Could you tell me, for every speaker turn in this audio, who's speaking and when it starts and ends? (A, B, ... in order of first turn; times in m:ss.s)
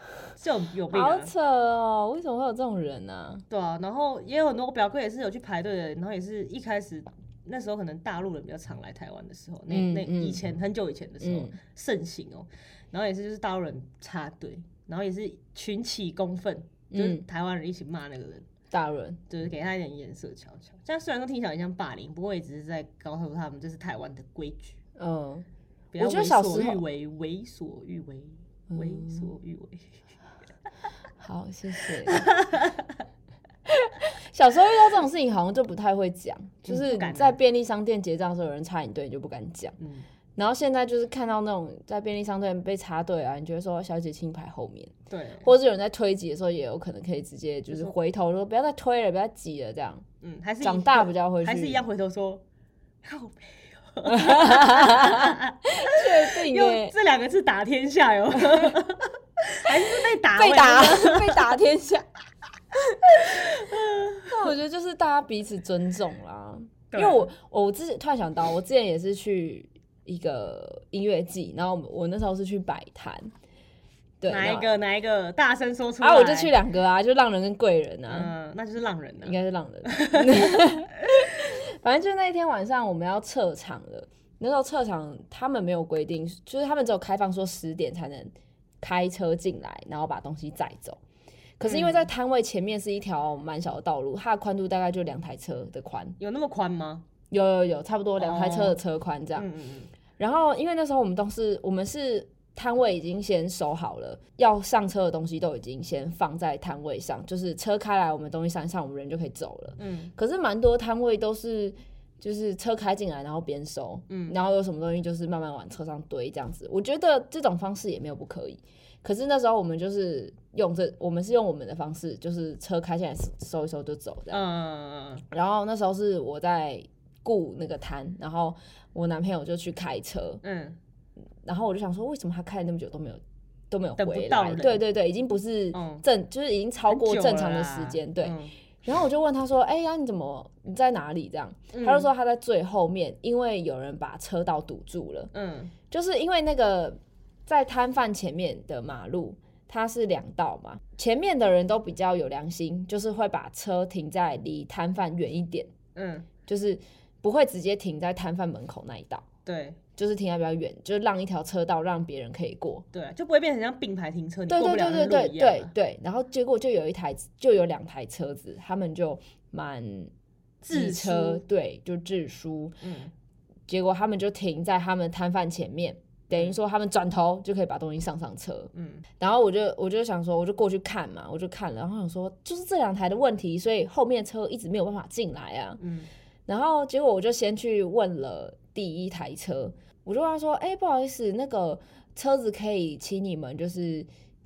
0:00.4-0:01.3 A
0:00.9-0:03.4 B
0:03.5-0:18.4 A
0:09.7-0:10.4 B
0:11.2-0:11.6 B
0:16.9-0:17.2 B
0:18.7-0:19.2 B
0:19.3-0:24.8 A
0:25.0-0:25.4 B
0:25.9-0:29.9 A
0:26.0-0:26.8 B
0:28.7-0:29.3 B
0:31.2-0:32.4 B
0:32.1-0:32.9 A
0:33.7-0:39.8 B
0:36.6-0:37.4 A
0:39.8-0:40.1 A
0:40.4-0:44.9 B
0:45.1-0:45.5 A
0:45.4-0:50.0 B
0:50.2-0:52.4 A
0:50.6-0:51.8 B
0:53.0-1:01.5 A
0:54.1-0:56.9 B
0:58.4-0:58.7 B
0:59.9-1:02.1 B
1:03.1-1:04.5 A
1:04.2-1:13.3 B
1:06.9-1:07.3 A
1:14.2-1:14.8 B
1:14.3-1:16.6 A
1:16.0-1:18.3 B
1:18.1-1:19.4 A
1:19.2-1:31.0 B
1:19.9-1:20.7 A
1:31.6-1:36.2 B
1:31.6-1:32.1 A
1:36.2-1:37.0 A
1:37.3-1:39.5 B
1:38.2-1:38.8 A
1:39.4-1:39.9 A
1:40.2-2:04.4 B
1:49.8-1:50.1 A
1:54.1-1:54.4 A
2:04.3-2:05.2 A
2:05.3-2:10.4 B
2:10.4-2:10.8 A
2:11.4-2:25.3 B
2:14.0-2:14.8 A
2:15.7-2:16.0 A
2:16.9-2:18.5 A
2:21.7-2:22.1 A
2:25.3-2:25.7 A
2:25.9-2:35.7 B
2:35.9-2:36.3 A
2:36.4-2:39.2 B
2:39.4-2:39.8 A
2:40.0-2:42.8 B
2:42.9-2:45.7 A
2:44.5-2:50.1 B
2:50.6-2:51.4 A
2:50.7-2:52.8 B
2:52.8-2:53.1 A
2:53.7-3:05.8 B
2:58.7-2:59.0 A
3:05.8-3:06.1 A
3:06.5-3:14.1 B